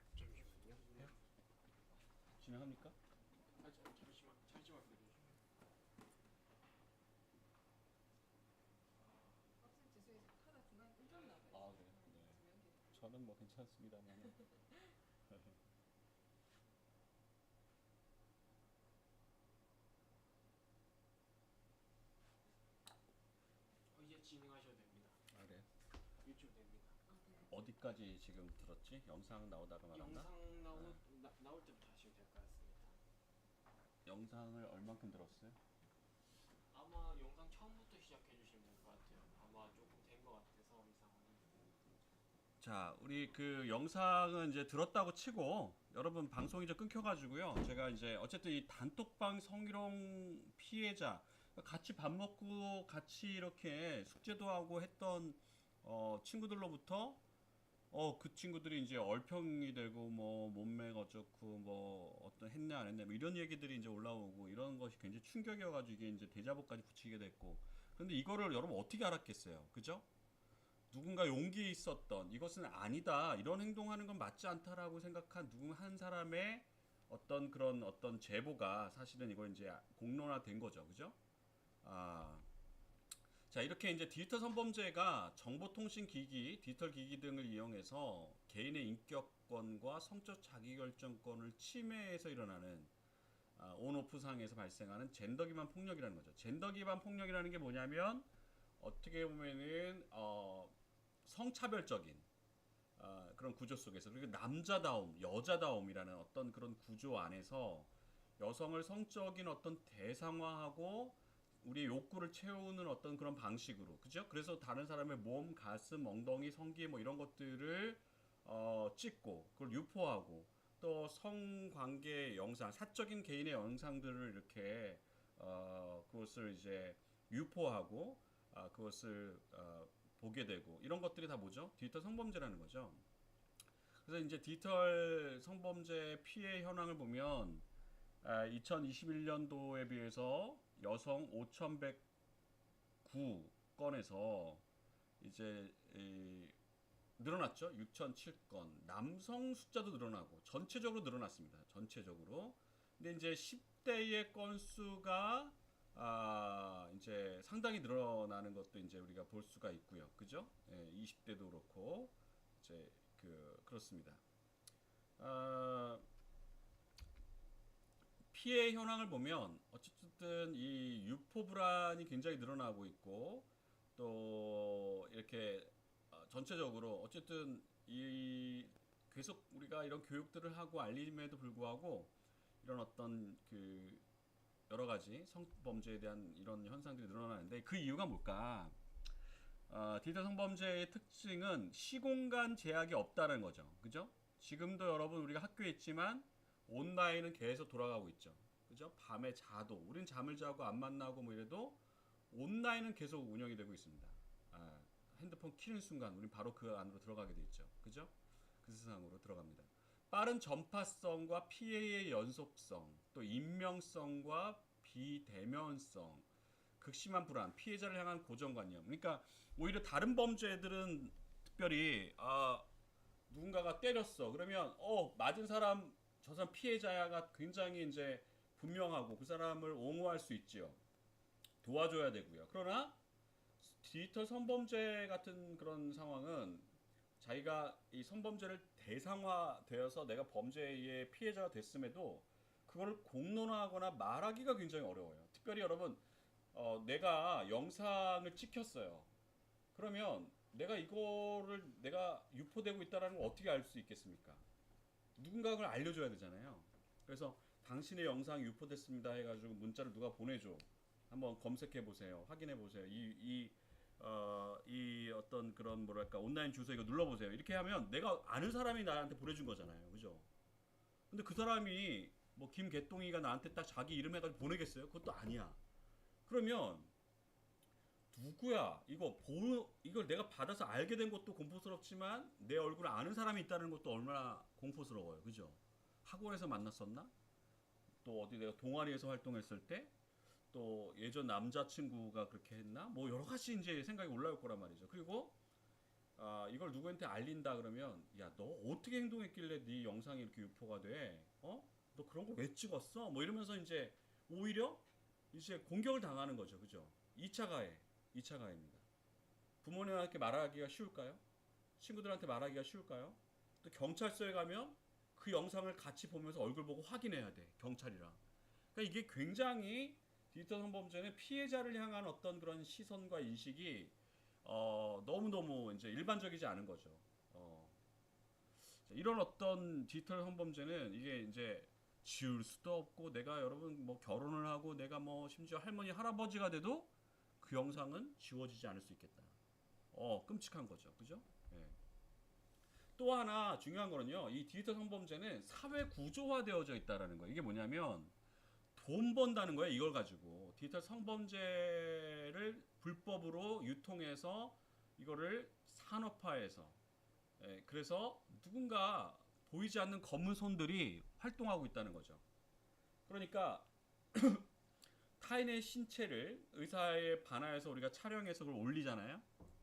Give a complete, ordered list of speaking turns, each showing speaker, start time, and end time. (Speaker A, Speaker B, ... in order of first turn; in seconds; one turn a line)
Speaker A: 0.1-1.2
Speaker B: 2.4-3.0
Speaker A: 3.6-5.4
Speaker C: 9.6-12.9
Speaker B: 11.5-14.4
Speaker C: 14.4-14.8
Speaker B: 15.3-15.6
Speaker A: 23.9-25.2
Speaker B: 25.3-25.7
Speaker A: 26.2-27.0
Speaker C: 27.1-27.5
Speaker B: 27.5-31.0
Speaker A: 29.9-33.0
Speaker B: 34.1-35.6
Speaker A: 36.7-41.8
Speaker B: 42.6-57.2
Speaker B: 57.9-70.1
Speaker B: 70.9-81.2
Speaker B: 81.8-82.5
Speaker B: 83.5-92.9
Speaker B: 93.6-98.3
Speaker B: 98.8-102.3
Speaker B: 103.0-133.1
Speaker B: 134.1-137.7
Speaker B: 138.2-142.0
Speaker B: 143.0-144.6
Speaker B: 145.2-146.6
Speaker B: 147.2-164.2
Speaker B: 165.2-166.0
Speaker B: 168.3-182.1
Speaker B: 182.6-184.0
Speaker B: 184.7-188.8
Speaker B: 189.7-201.8
Speaker B: 202.3-216.3
Speaker B: 216.8-222.7
Speaker B: 223.3-230.8
Speaker B: 231.6-233.0
Speaker B: 233.6-246.0
Speaker B: 246.5-249.1
Speaker B: 249.7-254.4
Speaker B: 255.2-270.3
Speaker B: 271.1-275.6
Speaker B: 276.3-276.9
Speaker B: 278.1-287.1
Speaker B: 288.0-289.9
Speaker B: 290.5-295.4
Speaker B: 296.2-308.9
Speaker B: 309.6-311.2
Speaker B: 311.8-318.2
Speaker B: 318.8-327.8
Speaker B: 328.9-339.3
Speaker B: 339.9-341.8
Speaker B: 343.0-348.1
Speaker B: 348.8-356.8
Speaker B: 357.4-362.2
Speaker B: 363.1-364.5
Speaker B: 365.2-369.3